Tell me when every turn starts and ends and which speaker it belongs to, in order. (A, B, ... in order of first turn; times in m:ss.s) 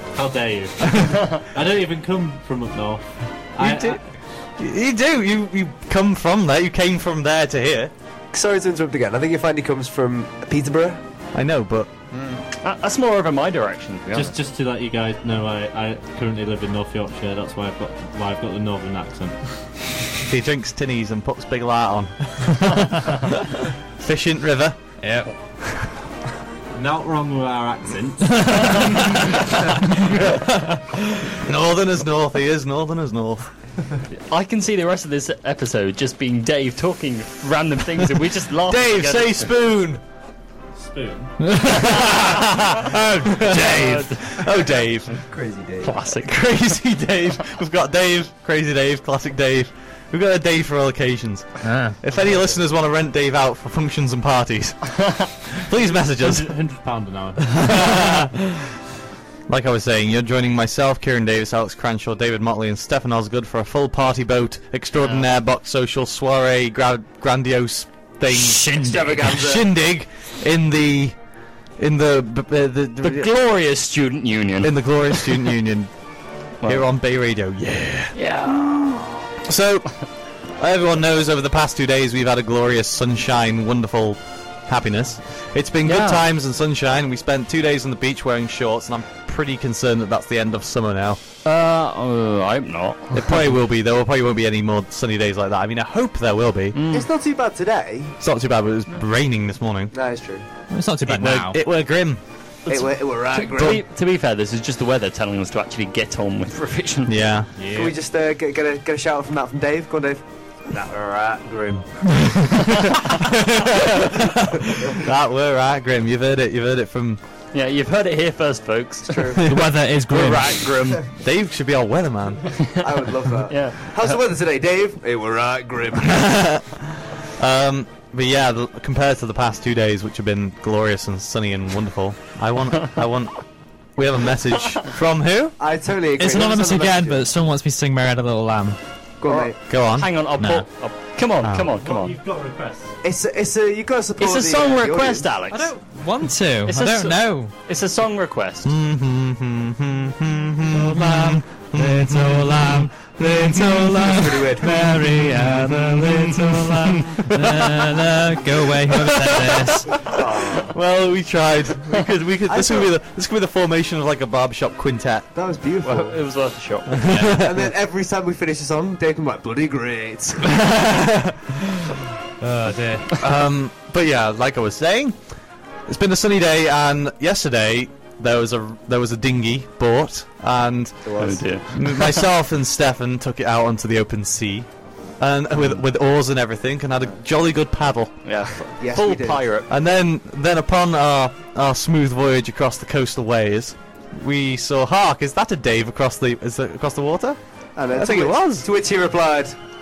0:00.1-0:04.1 A
0:00.9-0:01.2 B
0:03.6-0:04.0 B
0:04.5-0:07.9 B
0:08.3-0:11.0 C
0:11.3-0:11.9 B
0:12.6-0:14.4 D
0:14.1-0:19.5 A
0:20.3-0:25.0 B
0:25.0-0:25.3 E
0:25.6-0:25.9 B
0:26.7-0:29.0 A
0:28.4-0:29.2 E
0:31.3-0:33.5 B
0:34.1-0:39.5 D
0:38.7-0:40.0 B
0:40.8-0:41.5 A
0:41.4-0:44.4 E
0:41.7-0:45.2 B
0:43.5-0:44.4 D
0:45.2-0:45.9 C
0:45.8-0:46.7 D
0:46.2-0:56.6 B
0:51.6-0:52.0 E
0:55.0-0:55.3 D
0:56.1-0:57.7 A
0:57.4-0:58.6 B
0:59.5-1:11.2 B
1:05.0-1:05.3 D
1:08.4-1:09.3 E
1:08.7-1:09.7 C
1:11.8-1:13.3 B
1:13.0-1:15.4 D
1:14.6-1:15.9 B
1:16.6-1:31.2 B
1:18.2-1:18.9 D
1:25.8-1:26.2 D
1:31.4-1:33.5 D
1:33.1-1:36.8 B
1:36.7-1:37.1 D
1:36.9-1:38.2 C
1:38.2-1:39.9 B
1:39.9-1:40.4 C
1:40.7-1:41.6 E
1:41.1-1:42.2 B
1:42.7-1:43.8 C
1:42.7-1:47.2 D
1:47.1-1:47.5 B
1:47.6-1:47.9 E
1:47.6-1:50.2 C
1:50.7-1:52.4 A
1:53.5-1:57.2 B
1:57.5-1:59.4 D
1:59.1-1:59.5 C
1:59.5-2:01.0 E
2:00.1-2:01.0 D
2:01.2-2:02.8 B
2:02.8-2:06.5 C
2:03.5-2:04.2 D
2:06.0-2:15.6 B
2:15.6-2:17.2 C
2:16.2-2:18.8 E
2:19.2-2:19.6 C
2:19.3-2:22.2 D
2:19.7-2:20.7 B
2:21.4-2:21.7 B
2:21.6-2:23.0 A
2:23.0-2:25.3 C
2:24.2-2:25.7 D
2:25.5-2:27.5 E
2:26.7-2:28.8 D
2:28.6-2:34.1 B
2:30.7-2:40.2 E
2:34.0-2:34.9 C
2:34.6-2:37.8 B
2:38.8-2:45.3 B
2:40.0-2:40.7 C
2:42.4-2:42.9 C
2:45.3-2:46.2 C
2:45.8-2:47.1 D
2:46.9-2:47.7 B
2:47.1-2:47.4 E
2:47.2-2:50.8 C
2:50.5-2:51.6 B
2:52.4-2:53.2 E
2:53.2-2:55.2 B
2:55.9-3:17.4 B
3:01.0-3:01.4 C
3:01.2-3:02.3 D
3:08.2-3:09.6 D
3:08.8-3:09.5 C
3:17.8-3:19.6 C
3:17.9-3:18.7 B